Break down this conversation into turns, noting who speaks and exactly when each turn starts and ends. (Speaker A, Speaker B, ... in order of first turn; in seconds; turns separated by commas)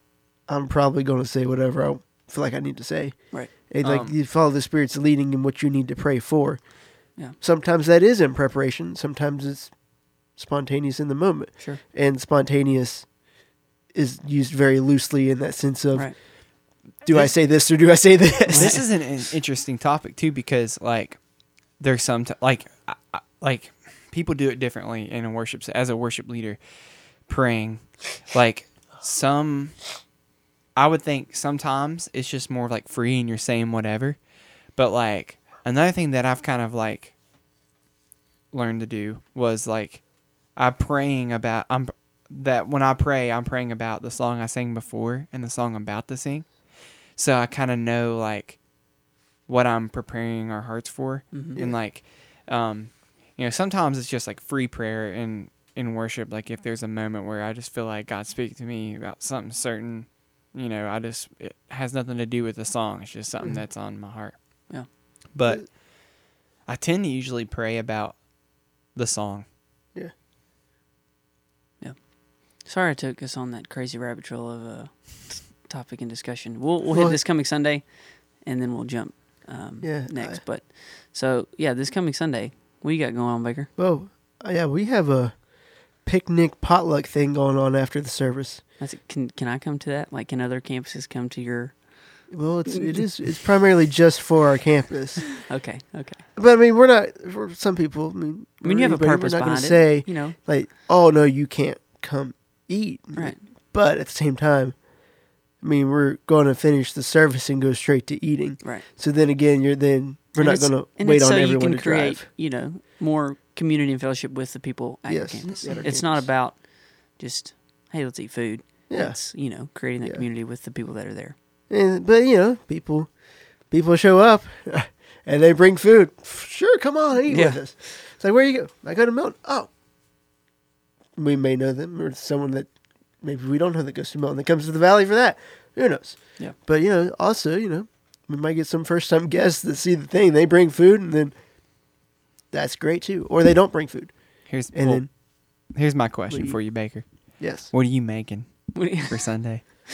Speaker A: 0.5-6.6, Speaker B: 3.8-4.1, Speaker A: 7.3-9.7, Speaker A: 10.4-13.1, Speaker A: 13.9-16.1, Speaker B: 17.0-17.3, Speaker A: 17.1-18.8, Speaker C: 18.5-18.9, Speaker B: 18.5-21.2, Speaker B: 21.8-26.6, Speaker B: 27.3-29.9, Speaker B: 30.8-34.2, Speaker B: 34.8-37.1, Speaker B: 38.5-40.0, Speaker B: 40.5-46.5, Speaker B: 47.1-48.6, Speaker B: 49.5-64.7, Speaker C: 51.3-51.6, Speaker B: 65.3-65.9, Speaker B: 66.7-68.2, Speaker B: 68.9-69.5, Speaker C: 72.5-83.7, Speaker A: 76.9-77.2, Speaker A: 79.8-80.4, Speaker A: 83.8-88.6, Speaker C: 88.8-93.0, Speaker A: 92.3-95.5, Speaker C: 95.4-96.2, Speaker A: 96.4-104.8, Speaker C: 98.6-100.4, Speaker C: 103.2-103.4, Speaker A: 105.6-112.3, Speaker C: 110.4-121.3, Speaker A: 115.1-116.3, Speaker B: 115.5-115.8, Speaker A: 118.9-119.2, Speaker A: 121.7-123.1, Speaker A: 123.7-129.7, Speaker C: 127.3-127.6, Speaker A: 131.2-132.7, Speaker A: 133.2-141.3, Speaker A: 142.5-144.1, Speaker B: 144.5-145.1, Speaker A: 144.7-145.1, Speaker B: 145.7-149.6, Speaker A: 146.3-146.6, Speaker A: 147.4-147.7, Speaker C: 148.8-149.2